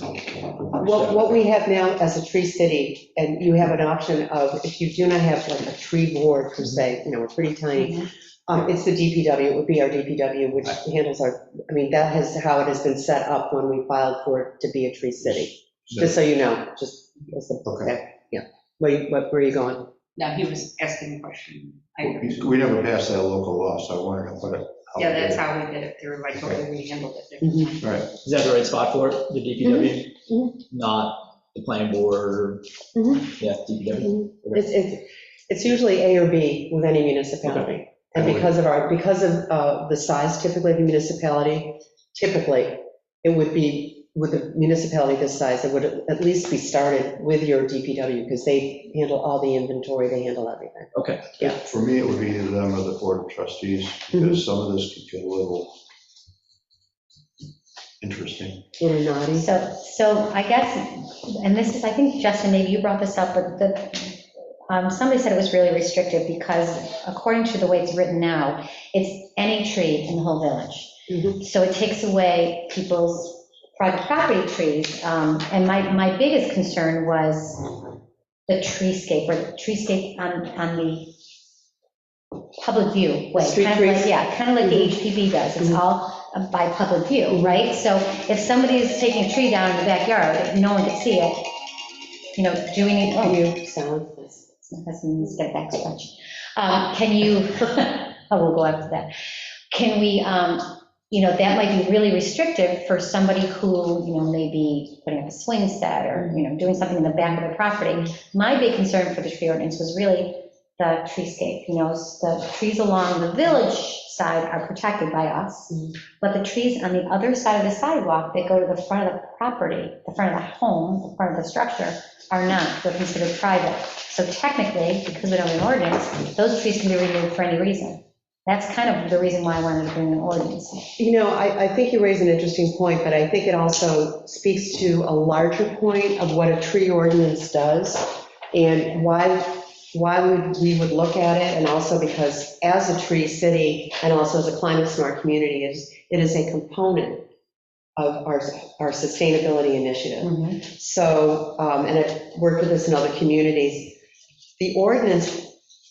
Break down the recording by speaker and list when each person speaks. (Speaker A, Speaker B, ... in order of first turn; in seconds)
Speaker A: 0.7-1.4, 28.2-32.6, 33.2-34.6, 50.9-51.4
Speaker B: 0.7-19.9, 29.6-30.5, 33.0-33.3, 34.0-51.6, 58.8-59.5, 71.1-71.4, 83.3-85.0, 87.3-87.6, 93.2-94.4, 131.0-147.2, 147.9-154.0, 154.6-155.5
Speaker C: 17.6-17.9, 22.0-25.4, 26.3-26.6, 27.8-28.1, 38.1-38.5, 51.4-55.7, 58.0-58.6
Speaker D: 20.1-22.3, 24.9-28.1
Speaker E: 59.3-77.7, 78.5-81.2, 82.6-91.5, 92.3-93.4, 94.7-99.1, 99.7-130.9, 150.2-150.6